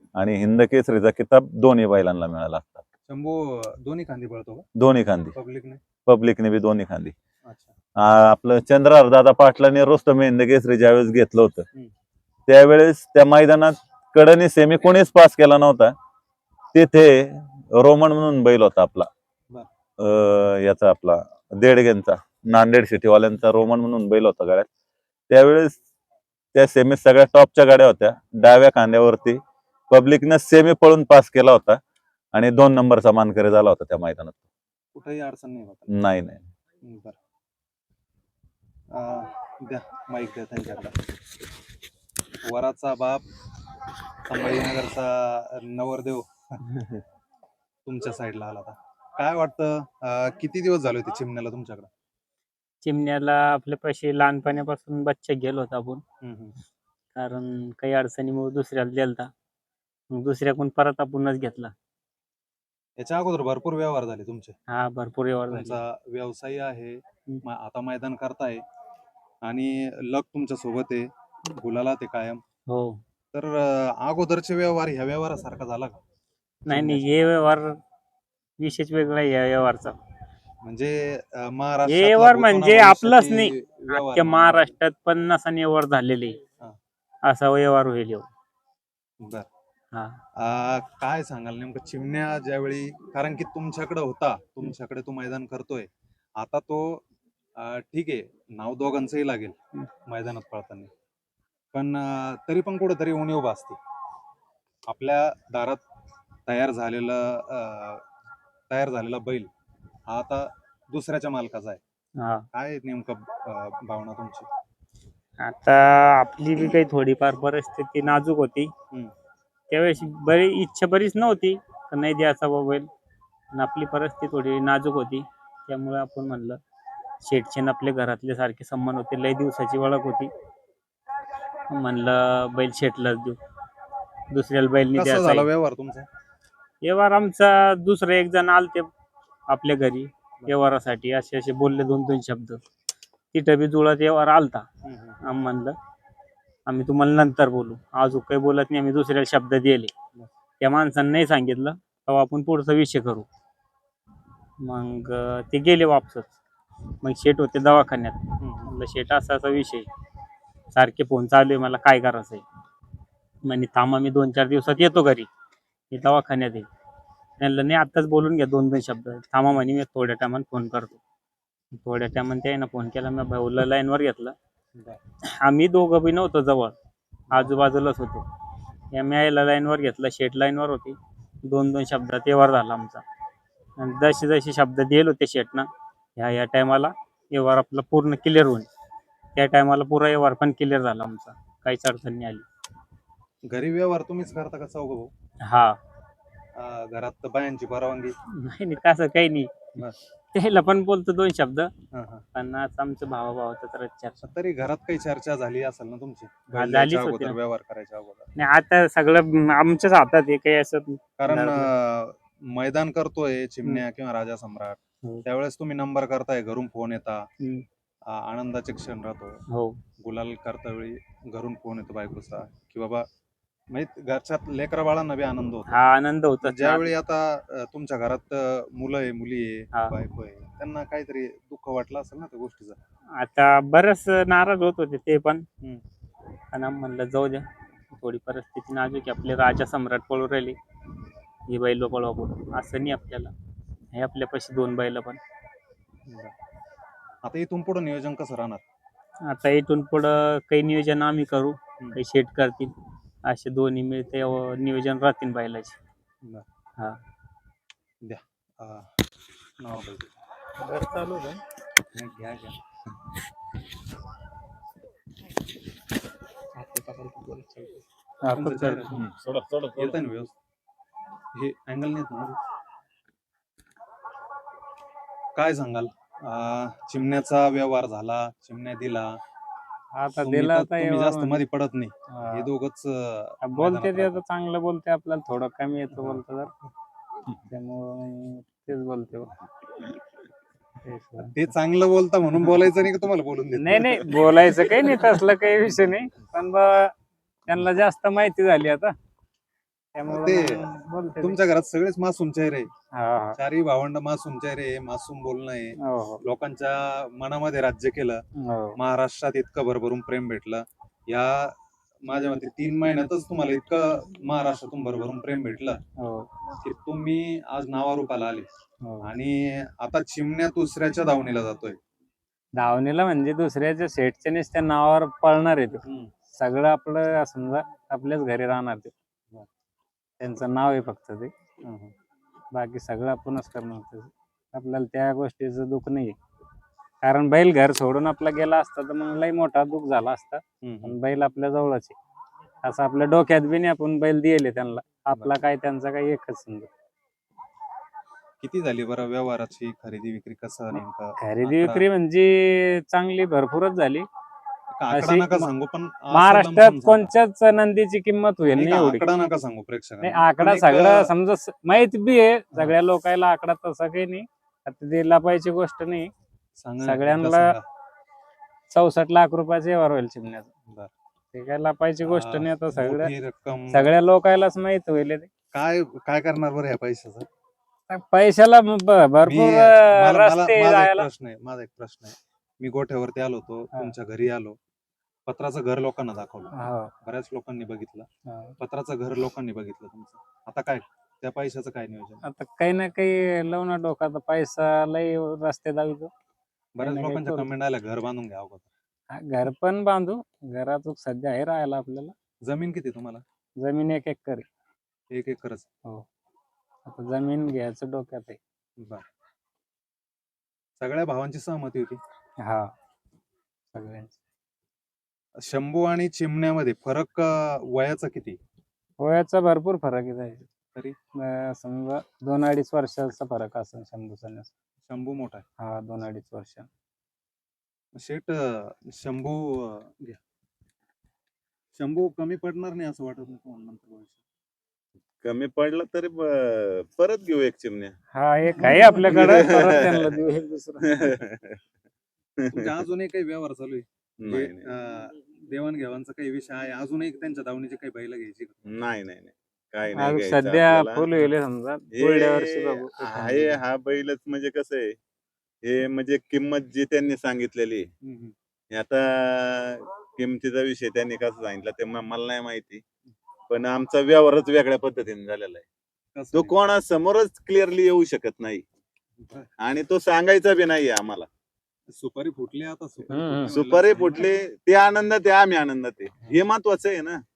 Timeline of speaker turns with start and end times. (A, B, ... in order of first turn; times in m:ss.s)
0:00.1-0:02.8 A
0:03.1-0:04.7 B
0:04.8-0:05.3 A
0:05.3-0:05.8 B
0:06.0-0:07.1 A
0:07.4-0:07.8 B
0:08.0-0:11.6 A
0:12.5-0:15.9 A
0:16.7-0:19.1 A
0:20.0-0:24.7 A
0:25.3-0:25.8 A
0:26.5-0:29.4 A
0:29.9-0:31.8 A
0:32.3-0:34.4 A
0:34.9-0:36.0 B
0:35.9-0:36.4 A
0:36.8-0:37.2 B
0:38.9-0:41.0 B
0:42.4-0:43.2 B
0:44.3-0:46.6 B
0:47.8-0:51.9 B
0:52.8-0:56.0 C
0:56.2-0:56.6 B
0:57.2-0:59.3 C
1:00.1-1:01.7 C
1:03.0-1:04.5 B
1:04.7-1:05.8 C
1:05.5-1:08.6 B
1:09.4-1:12.4 B
1:12.7-1:13.0 C
1:13.3-1:16.0 B
1:16.6-1:17.8 C
1:16.7-1:17.1 B
1:18.6-1:20.0 C
1:20.6-1:24.7 B
1:21.9-1:26.4 C
1:27.2-1:28.3 C
1:29.2-1:29.5 B
1:29.9-1:30.2 C
1:30.4-1:37.0 B
1:37.6-1:40.9 B
1:41.7-1:43.8 B
1:44.8-1:45.8 B
1:46.4-1:48.1 B
1:48.7-1:49.5 B
1:50.1-1:51.8 B
1:52.2-1:52.4 C
1:52.5-1:54.5 B
1:55.4-1:58.7 C
1:59.7-2:02.9 C
2:03.5-2:06.6 C
2:07.2-2:10.3 C
2:11.7-2:13.4 C
2:14.3-2:15.5 C
2:14.9-2:16.1 B
2:16.8-2:18.9 C
2:19.5-2:22.6 C
2:23.3-2:24.6 C
2:24.8-2:25.2 B
2:25.2-2:25.7 C
2:26.7-2:29.9 C
2:30.6-2:33.2 C
2:34.6-2:36.3 C
2:37.0-2:39.9 C
2:38.4-2:38.7 B
2:40.7-2:42.4 C
2:43.4-2:45.3 C
2:45.9-2:46.7 C
2:47.4-2:51.0 C
2:51.7-2:54.3 C
2:54.7-2:55.0 B
2:55.4-2:56.7 C
2:57.3-2:58.2 C
2:58.9-3:03.0 C
3:03.8-3:08.7 C
3:09.3-3:12.4 C
3:13.5-3:15.1 B
3:15.4-3:15.8 C
3:16.6-3:18.1 B
3:18.3-3:19.7 C
3:20.3-3:21.7 C
3:21.9-3:22.2 B
3:22.3-3:24.2 C
3:24.2-3:28.3 B
3:26.5-3:27.4 C
3:28.4-3:31.7 C
3:31.2-3:37.3 B
3:38.1-3:39.4 B
3:39.5-3:39.8 C
3:40.0-3:43.0 B
3:43.7-3:45.8 B
3:45.7-3:46.9 C
3:46.4-3:52.8 B
3:53.2-3:55.4 C
3:56.5-4:00.6 C
4:01.5-4:03.3 C
4:03.9-4:05.2 C
4:06.0-4:06.3 B
4:07.2-4:08.6 B
4:09.3-4:12.7 C
4:13.2-4:15.8 C
4:18.0-4:18.9 B
4:19.6-4:20.1 B
4:20.6-4:21.4 C
4:21.9-4:22.6 B
4:26.6-4:27.8 C
4:28.2-4:29.0 D
4:28.3-4:29.0 B
4:28.9-4:30.0 A
4:29.8-4:30.3 B
4:31.3-4:32.4 B
4:35.4-4:39.2 B
4:39.9-4:41.4 D
4:40.2-4:44.2 B
4:42.1-4:42.5 D
4:43.4-4:46.5 D
4:45.9-4:46.2 B
4:47.5-4:49.4 D
4:50.8-4:51.3 D
4:51.2-4:54.2 B
4:53.6-4:56.9 D
4:57.4-4:58.9 D
4:59.9-5:01.4 D
5:00.0-5:00.6 B
5:01.2-5:02.7 B
5:03.0-5:03.4 D
5:03.4-5:08.2 B
5:05.8-5:06.2 D
5:08.4-5:08.8 D
5:08.8-5:15.8 B
5:16.0-5:16.3 D
5:16.6-5:18.5 B
5:19.0-5:21.8 B
5:22.6-5:25.8 D
5:25.8-5:26.1 B
5:26.4-5:28.9 D
5:30.2-5:31.3 D
5:31.6-5:31.9 B
5:32.5-5:36.2 D
5:37.0-5:42.0 D
5:40.6-5:41.0 B
5:42.6-5:46.7 D
5:48.4-5:51.9 B
5:50.7-5:54.1 D
5:54.8-5:57.1 B
5:54.9-5:55.5 D
5:56.1-5:59.2 D
5:58.5-6:01.1 B
6:00.0-6:06.1 D
6:06.6-6:07.6 B
6:06.8-6:07.5 D
6:08.7-6:10.5 D
6:10.7-6:10.9 B
6:11.3-6:13.1 D
6:12.0-6:13.9 B
6:13.7-6:15.3 D
6:15.5-6:17.3 B
6:17.9-6:21.1 D
6:19.2-6:24.6 B
6:25.3-6:28.1 B
6:26.5-6:26.9 D
6:28.3-6:28.5 D
6:28.6-6:32.2 B
6:32.2-6:36.1 D
6:36.8-6:38.7 B
6:36.8-6:37.5 D
6:39.1-6:42.1 D
6:42.4-6:43.2 B
6:43.6-6:44.5 D
6:45.1-6:45.7 B
6:46.8-6:48.4 D
6:48.8-6:49.0 B
6:50.8-6:52.0 B
6:52.4-6:52.7 D
6:53.7-6:54.2 D
6:55.4-6:58.4 B
6:59.0-7:00.5 D
7:01.2-7:04.5 D
7:04.8-7:05.4 B
7:05.6-7:06.7 D
7:08.0-7:10.2 B
7:11.8-7:14.2 B
7:15.2-7:17.9 A
7:18.1-7:21.2 D
7:18.6-7:19.4 B
7:19.0-7:20.1 A
7:20.8-7:21.6 A
7:22.4-7:22.7 A
7:22.5-7:28.7 B
7:24.2-7:24.7 A
7:28.6-7:31.1 A
7:30.0-7:33.6 D
7:31.9-7:35.0 A
7:35.6-7:37.9 A
7:38.0-7:38.3 B
7:38.7-7:42.8 A
7:43.5-7:45.6 A
7:46.1-7:46.6 B
7:46.3-7:48.6 A
7:49.2-7:49.5 B
7:49.6-7:51.3 A
7:51.9-7:54.3 B
7:53.1-7:53.5 D
7:53.5-7:57.2 A